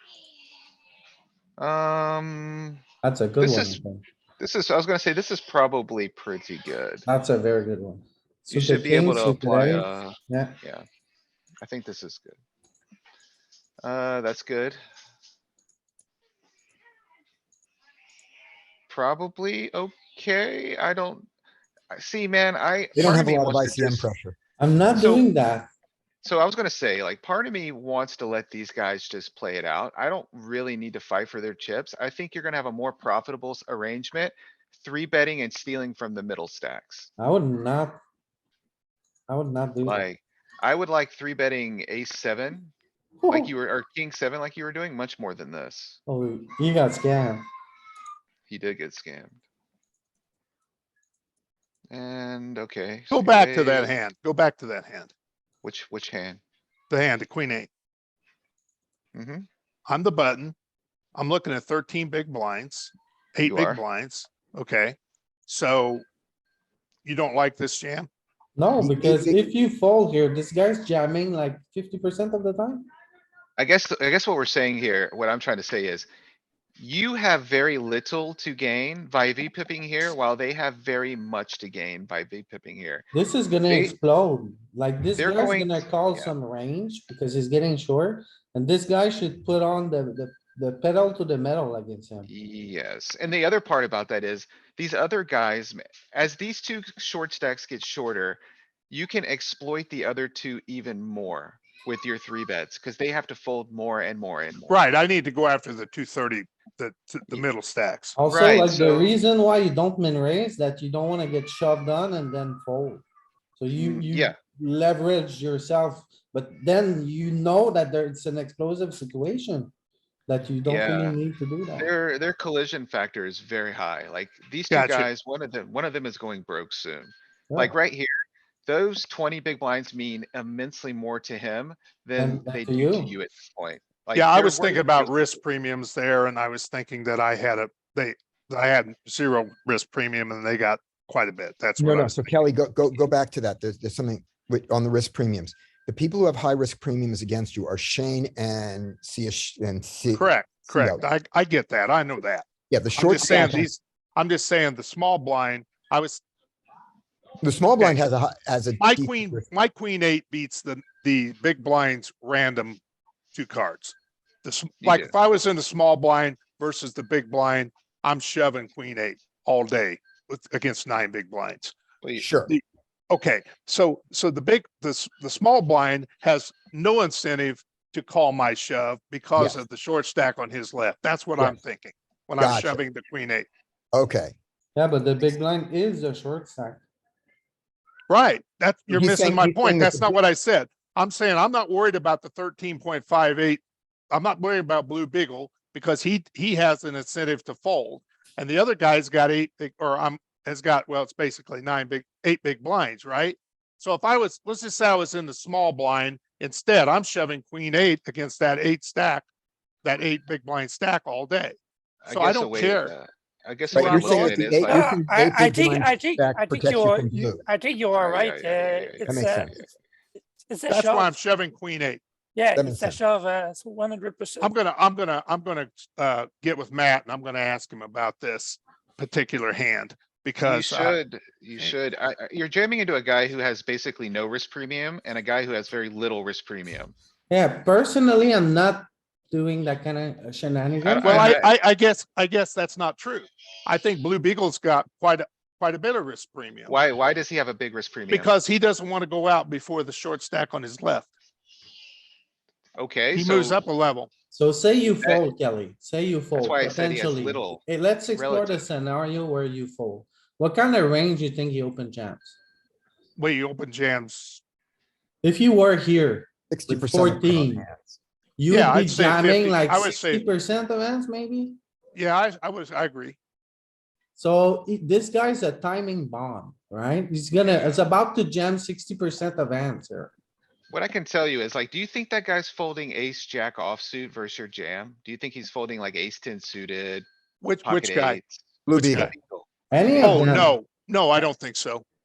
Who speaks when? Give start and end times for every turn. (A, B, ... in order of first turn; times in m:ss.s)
0:01.6-0:02.8 A
0:03.0-0:04.0 B
0:03.4-0:03.8 A
0:04.4-0:07.1 A
0:07.1-0:10.6 B
0:08.5-0:10.8 A
0:11.6-0:12.4 A
0:13.8-0:14.8 A
0:18.9-0:21.3 A
0:21.9-0:24.1 A
0:23.0-0:24.4 C
0:24.6-0:25.7 B
0:24.9-0:25.3 A
0:26.2-0:37.1 A
0:37.2-0:38.0 B
0:39.3-0:40.0 B
0:39.8-0:42.7 A
0:43.2-0:43.5 B
0:43.3-0:46.0 A
0:46.1-0:47.5 B
0:48.5-0:49.4 A
0:51.9-0:54.0 A
0:53.1-0:55.1 D
0:55.6-0:56.4 A
0:56.9-0:57.7 D
0:59.1-0:59.5 A
0:59.9-1:00.6 D
1:01.2-1:06.0 D
1:03.4-1:03.8 A
1:07.0-1:08.1 D
1:08.6-1:12.9 B
1:08.8-1:09.5 C
1:13.6-1:16.1 A
1:16.8-1:23.1 A
1:23.1-1:32.3 B
1:23.7-1:24.0 A
1:25.2-1:26.3 A
1:32.3-1:44.8 A
1:44.7-1:48.2 D
1:48.2-1:53.0 B
1:48.3-1:49.1 A
1:53.6-1:59.7 B
1:53.7-1:54.4 A
2:00.3-2:01.9 B
2:00.7-2:01.2 A
2:01.8-2:08.1 A
2:04.7-2:05.1 D
2:08.7-2:15.3 A
2:12.2-2:13.1 B
2:14.2-2:22.3 D
2:21.8-2:31.0 C
2:30.1-2:36.2 D
2:32.7-2:33.7 C
2:37.4-2:39.4 C
2:37.8-2:38.0 D
2:38.8-2:42.8 D
2:43.4-2:51.7 D
2:44.8-2:45.1 A
2:52.2-2:52.5 C
2:52.5-3:03.5 D
3:02.4-3:02.8 C
3:03.9-3:04.4 C
3:04.8-3:06.8 B
3:08.1-3:29.3 D
3:08.9-3:10.2 C
3:29.8-3:31.6 D
3:32.0-3:35.0 A
3:32.1-3:32.9 D
3:33.7-3:34.6 D
3:33.7-3:37.4 C
3:34.7-3:39.6 E
3:37.9-3:39.7 A
3:39.1-3:39.5 C
3:40.5-3:41.1 E
3:40.7-3:42.0 D
3:42.4-3:44.5 E
3:42.6-3:43.0 C
3:44.4-3:51.0 D
3:50.4-3:56.9 A
3:57.3-4:01.4 B
4:00.8-4:01.5 A
4:01.0-4:06.8 D
4:06.7-4:08.3 A
4:08.1-4:11.1 D
4:12.8-4:13.6 A
4:13.1-4:14.1 D
4:14.3-4:22.4 B
4:16.3-4:18.7 A
4:23.2-4:24.4 D
4:25.2-4:27.6 B
4:26.5-4:28.0 C
4:28.4-4:31.6 B
4:28.5-4:30.2 D
4:32.0-4:33.2 D
4:34.2-4:40.1 B
4:37.3-4:37.8 A
4:40.7-4:47.1 A
4:47.4-4:49.1 D
4:47.6-4:50.4 A
4:48.7-4:49.1 C
4:49.7-4:50.6 B
4:50.0-4:51.8 D